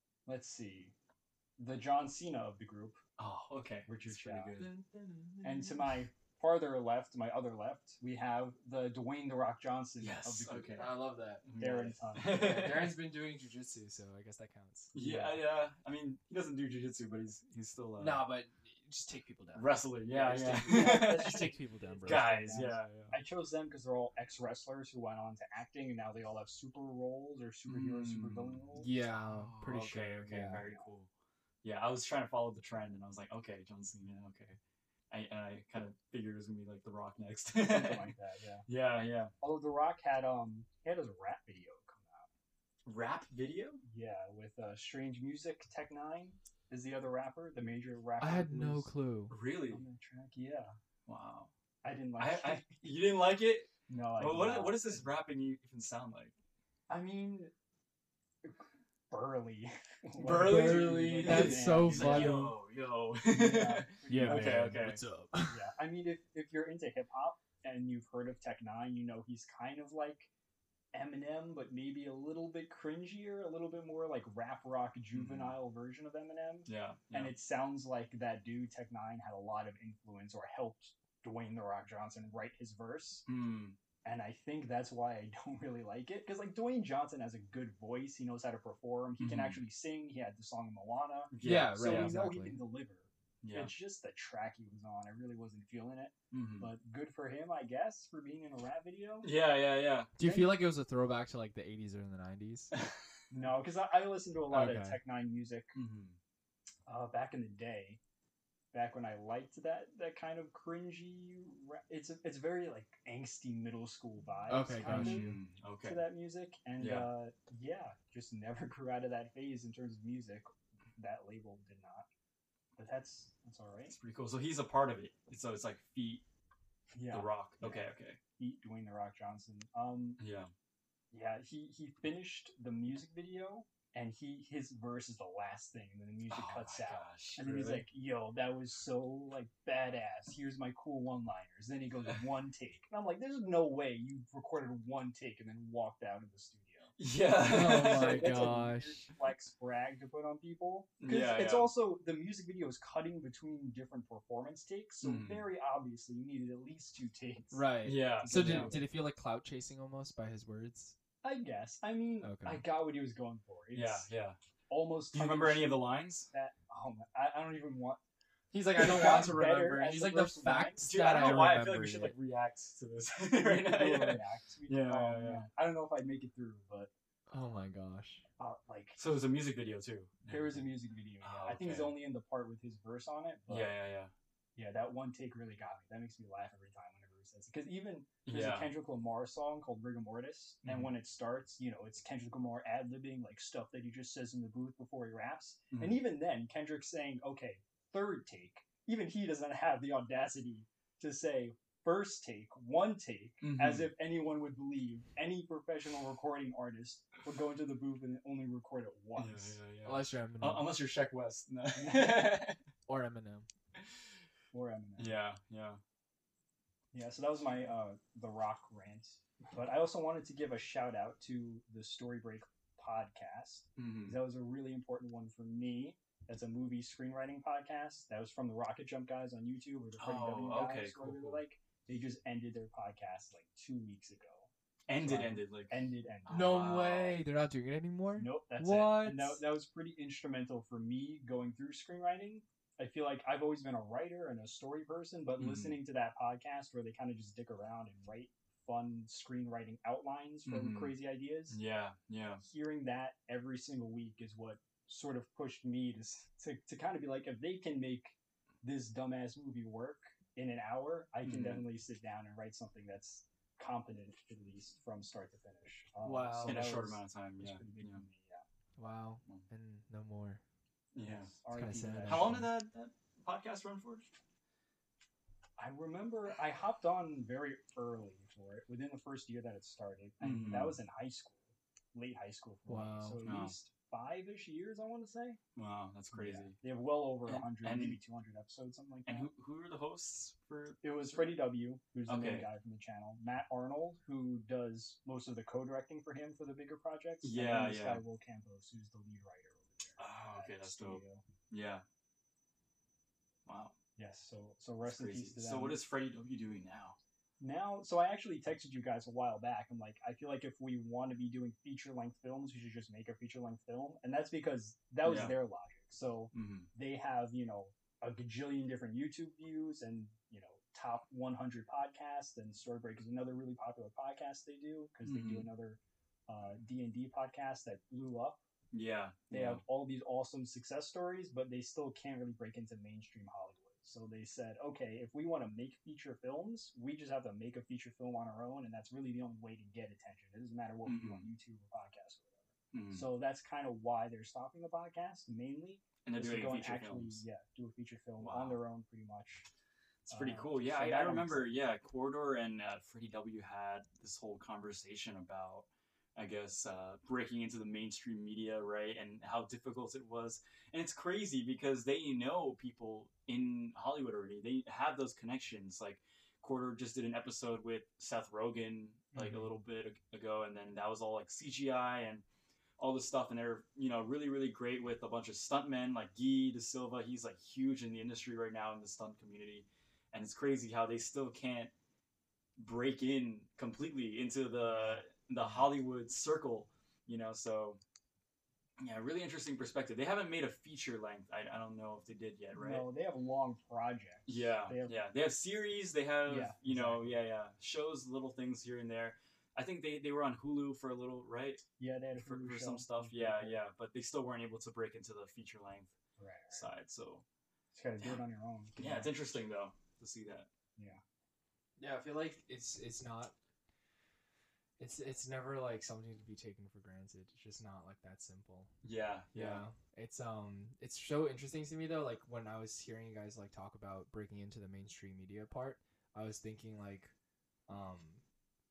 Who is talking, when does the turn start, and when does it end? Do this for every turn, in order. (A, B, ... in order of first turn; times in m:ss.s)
0:00.2-0:00.9 A
0:01.6-0:03.0 A
0:03.2-0:04.7 B
0:03.9-0:04.6 A
0:04.6-0:06.0 C
0:05.4-0:10.8 A
0:10.0-0:13.0 B
0:10.7-0:11.5 C
0:11.6-0:12.7 A
0:12.1-0:14.9 C
0:14.9-0:18.2 B
0:14.9-0:15.4 A
0:18.0-0:22.4 C
0:19.6-0:21.5 B
0:20.6-0:28.9 A
0:22.0-0:23.1 B
0:27.7-0:31.1 B
0:28.8-0:30.6 C
0:30.5-0:30.8 A
0:31.6-0:34.6 B
0:35.1-0:38.1 B
0:37.6-0:38.6 A
0:38.7-0:39.3 B
0:39.4-0:42.3 A
0:42.8-0:43.8 B
0:43.8-0:48.9 A
0:48.2-0:49.4 C
0:49.3-0:49.8 B
0:49.7-0:50.7 A
0:51.1-0:51.5 B
0:51.8-0:52.7 A
0:52.2-0:56.3 B
0:53.9-0:55.1 A
0:56.9-0:57.5 A
0:58.4-1:02.4 A
1:00.2-1:02.5 C
1:00.4-1:05.0 B
1:03.3-1:04.9 A
1:04.1-1:05.6 C
1:05.4-1:10.3 A
1:10.9-1:23.2 A
1:15.1-1:15.6 B
1:16.7-1:17.3 B
1:23.3-1:23.8 B
1:24.0-1:39.3 A
1:29.2-1:29.6 B
1:31.3-1:32.1 B
1:31.4-1:32.6 C
1:33.4-1:33.7 B
1:36.3-1:36.7 B
1:39.2-1:40.1 B
1:40.2-1:42.7 C
1:40.2-1:40.6 A
1:43.3-1:45.7 A
1:44.5-1:45.0 C
1:45.7-1:46.2 B
1:46.9-1:48.0 A
1:48.7-1:55.3 A
1:54.5-1:55.4 C
1:54.8-1:56.0 B
1:55.8-2:02.1 A
1:56.8-1:57.1 B
2:02.8-2:04.0 A
2:03.9-2:06.2 B
2:06.9-2:10.2 A
2:07.1-2:08.2 B
2:10.2-2:10.5 B
2:11.1-2:27.0 A
2:16.3-2:17.8 B
2:17.4-2:17.8 C
2:27.0-2:28.5 B
2:27.4-2:29.0 C
2:27.5-2:37.7 A
2:31.0-2:31.7 B
2:35.0-2:35.5 B
2:37.5-2:41.0 C
2:37.8-2:38.8 B
2:38.2-2:38.8 A
2:41.2-2:44.1 A
2:42.2-2:42.6 C
2:43.7-2:44.4 B
2:44.7-2:48.0 A
2:45.1-2:46.3 B
2:48.5-2:52.1 C
2:48.8-2:50.9 A
2:50.8-2:55.5 B
2:53.3-2:56.9 A
2:57.3-2:58.2 C
2:58.4-2:59.0 A
2:59.0-3:00.6 B
3:00.3-3:03.7 A
3:01.2-3:02.0 B
3:03.5-3:04.1 B
3:04.6-3:29.6 A
3:08.2-3:08.7 B
3:10.6-3:10.9 B
3:15.7-3:16.0 B
3:23.4-3:23.9 B
3:29.2-3:32.6 B
3:29.8-3:30.7 C
3:31.7-3:32.3 A
3:32.9-3:33.5 C
3:34.5-3:35.2 A
3:35.0-3:35.8 B
3:36.9-3:54.5 A
3:43.8-3:44.2 B
3:50.0-3:51.4 B
3:54.9-3:57.2 B
3:55.0-3:56.5 A
3:56.3-3:59.4 C
3:58.2-4:11.6 A
4:05.4-4:05.8 B
4:10.4-4:11.0 B
4:11.5-4:12.4 B
4:12.4-4:28.4 A
4:21.2-4:21.6 B
4:26.0-4:26.6 C
4:26.4-4:28.0 B
4:28.8-4:30.4 C
4:30.9-4:31.3 B
4:31.0-4:32.4 A
4:31.5-4:32.5 C
4:32.1-4:34.1 B
4:35.6-4:45.4 A
4:40.2-4:40.8 B
4:42.7-4:43.2 C
4:43.2-4:43.5 B
4:45.6-4:46.6 B
4:46.1-4:49.3 A
4:47.2-4:48.0 B
4:49.0-4:51.4 B
4:50.8-5:01.2 A
4:52.1-4:52.5 B
4:57.2-4:58.0 B
5:00.0-5:01.8 B
5:03.4-5:03.7 B
5:04.0-5:05.8 A
5:04.8-5:07.0 B
5:07.4-5:28.4 A
5:15.0-5:15.3 B
5:16.3-5:16.7 B
5:25.0-5:25.5 B
5:28.7-5:29.6 B
5:29.3-5:49.4 A
5:40.8-5:41.2 B
5:42.7-5:43.1 B
5:46.0-5:47.2 B
5:48.2-5:48.6 B
5:50.1-6:12.2 B
5:50.1-5:51.6 A
6:09.1-6:09.5 A
6:12.8-6:21.7 B
6:22.6-6:27.8 B
6:24.7-6:25.0 A
6:28.8-6:32.9 B
6:32.5-6:35.0 A
6:34.3-6:41.6 B
6:36.2-6:37.2 A
6:41.8-6:43.6 A
6:42.2-6:45.9 B
6:46.2-6:46.7 A
6:46.5-6:47.2 B
6:47.7-6:49.1 A
6:48.8-6:50.5 B
6:51.8-6:53.3 C
6:54.8-6:58.7 C
6:58.8-6:59.6 B
6:59.3-7:07.1 C
7:07.7-7:08.2 C